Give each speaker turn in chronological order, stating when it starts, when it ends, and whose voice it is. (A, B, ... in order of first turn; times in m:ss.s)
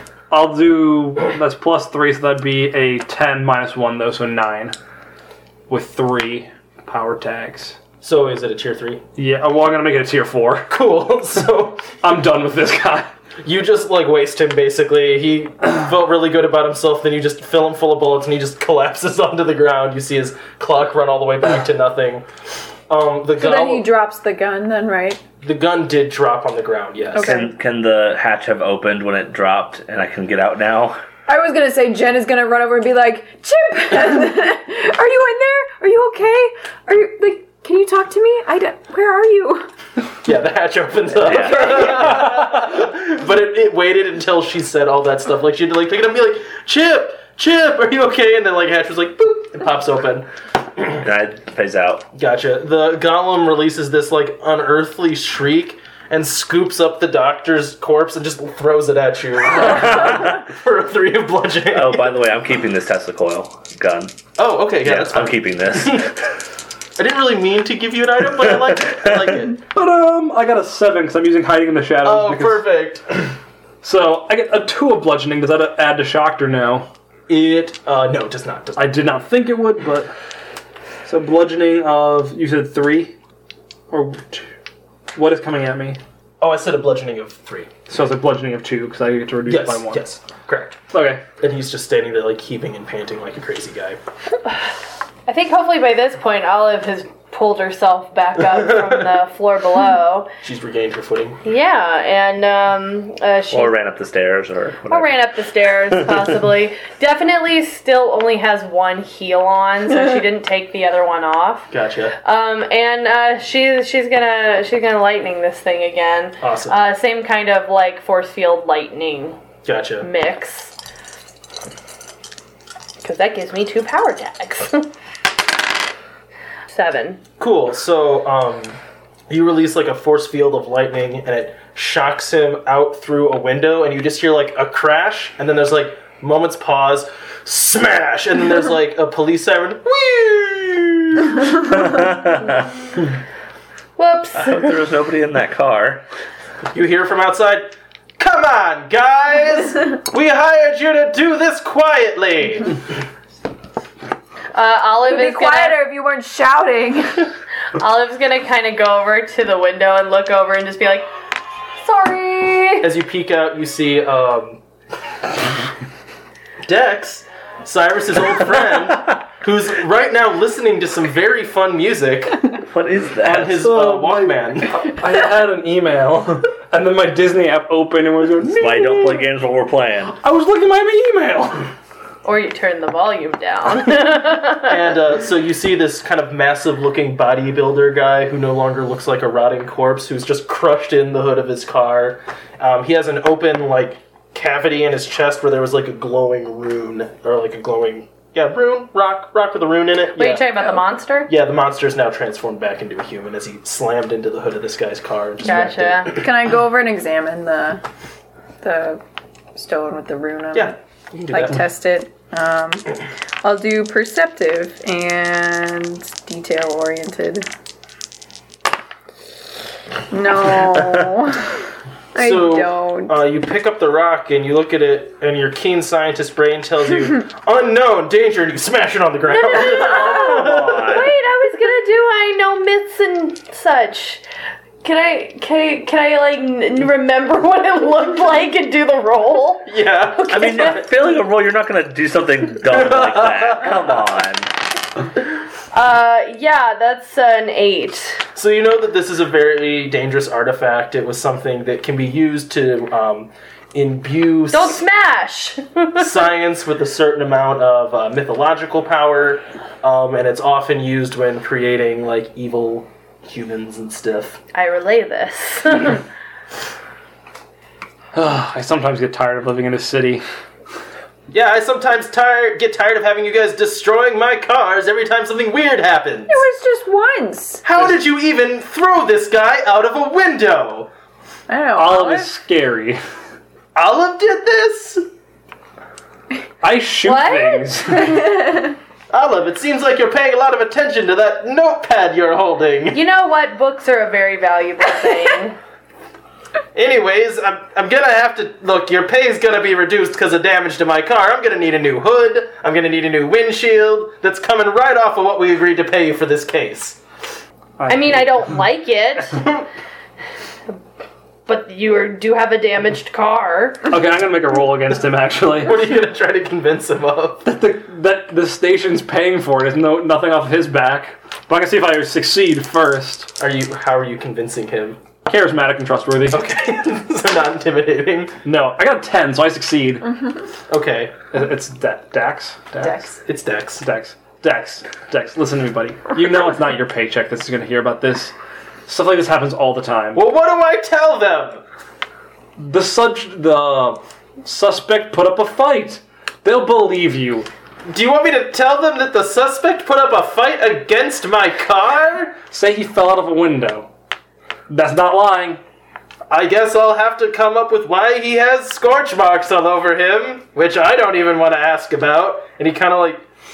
0:00.3-0:04.7 A
0:05.7-0:07.8 A
0:08.0-0:09.0 B
0:09.2-0:10.8 A
0:10.7-0:11.9 B
0:12.0-0:13.1 A
0:13.4-0:22.2 B
0:22.9-0:23.9 B
0:23.4-0:25.2 C
0:25.4-0:27.5 B
0:27.1-0:27.5 C
0:27.2-0:31.0 D
0:31.3-0:39.7 C
0:40.2-0:50.3 B
0:41.2-0:42.2 D
0:41.2-0:42.1 C
0:51.0-0:52.1 D
0:52.1-1:02.2 B
0:59.5-1:00.4 D
1:01.7-1:04.1 D
1:04.4-1:06.2 B
1:04.8-1:06.2 D
1:07.0-1:09.6 B
1:09.7-1:12.7 A
1:12.0-1:13.3 B
1:13.8-1:16.9 A
1:17.3-1:19.0 B
1:18.8-1:20.1 A
1:21.0-1:23.1 A
1:23.9-1:24.5 A
1:25.1-1:26.0 A
1:26.4-1:27.7 B
1:27.9-1:30.1 A
1:29.4-1:30.8 B
1:30.9-1:31.2 A
1:31.4-1:34.0 B
1:35.2-1:40.3 E
1:38.6-1:39.0 B
1:40.4-1:41.4 B
1:41.4-1:43.7 E
1:43.5-1:45.2 D
1:44.9-1:59.4 E
1:45.9-1:46.3 D
1:51.7-1:52.2 B
1:56.4-1:56.8 B
1:59.6-2:00.1 B
2:00.0-2:00.7 E
2:03.0-2:04.9 E
2:06.7-2:07.2 E
2:07.4-2:08.8 B
2:09.3-2:21.4 B
2:21.6-2:22.7 D
2:24.0-2:24.8 E
2:24.3-2:26.0 D
2:26.7-2:32.8 B
2:34.5-2:35.8 E
2:35.1-2:37.3 C
2:37.8-2:41.1 E
2:41.8-2:42.9 E
2:42.8-2:44.6 B
2:46.6-2:52.5 B
2:52.7-2:53.6 D
2:53.2-2:54.8 B
2:53.5-2:59.2 A
2:58.6-3:00.1 D
3:00.1-3:01.7 A
3:02.2-3:04.8 E
3:04.6-3:20.7 B
3:20.2-3:21.3 E
3:21.3-3:26.2 B
3:25.4-3:26.2 E
3:26.1-3:27.8 C
3:28.6-3:29.0 C
3:29.5-3:30.7 C
3:30.5-3:31.6 B
3:31.3-3:37.5 C
3:40.1-3:41.6 C
3:42.1-3:43.2 C
3:42.1-3:51.0 B
3:49.3-3:54.2 E
3:49.9-3:51.1 D
3:54.8-4:00.8 E
3:59.6-4:00.8 B
4:00.3-4:04.5 D
4:02.7-4:03.9 B
4:05.7-4:08.2 E
4:08.3-4:14.8 B
4:14.5-4:16.1 E
4:16.0-4:24.4 B
4:24.5-4:26.0 E
4:28.1-4:30.2 A
4:31.3-4:36.4 B
4:36.3-4:37.6 C
4:37.6-4:40.9 B
4:41.5-4:42.3 C
4:41.7-4:43.0 A
4:43.7-4:45.0 B
4:46.6-4:48.5 A
4:47.0-4:48.2 E
4:49.1-4:53.0 B
4:52.9-4:55.6 E
4:56.7-5:07.0 B
5:07.8-5:08.5 A
5:07.9-5:09.6 E
5:11.5-5:13.9 E
5:13.9-5:15.8 A
5:15.6-5:17.4 B
5:17.4-5:23.3 A
5:23.4-5:25.0 B
5:25.2-5:26.4 A
5:26.3-5:28.4 B
5:28.4-5:30.3 A
5:30.7-5:31.2 B
5:31.3-5:33.2 A
5:33.2-5:33.8 B
5:33.8-5:38.3 A
5:38.9-5:40.2 A
5:40.1-5:41.6 B
5:42.6-5:47.5 A
5:47.9-5:52.4 B
5:52.5-5:53.9 A
5:54.7-5:55.6 A
5:56.3-6:03.2 B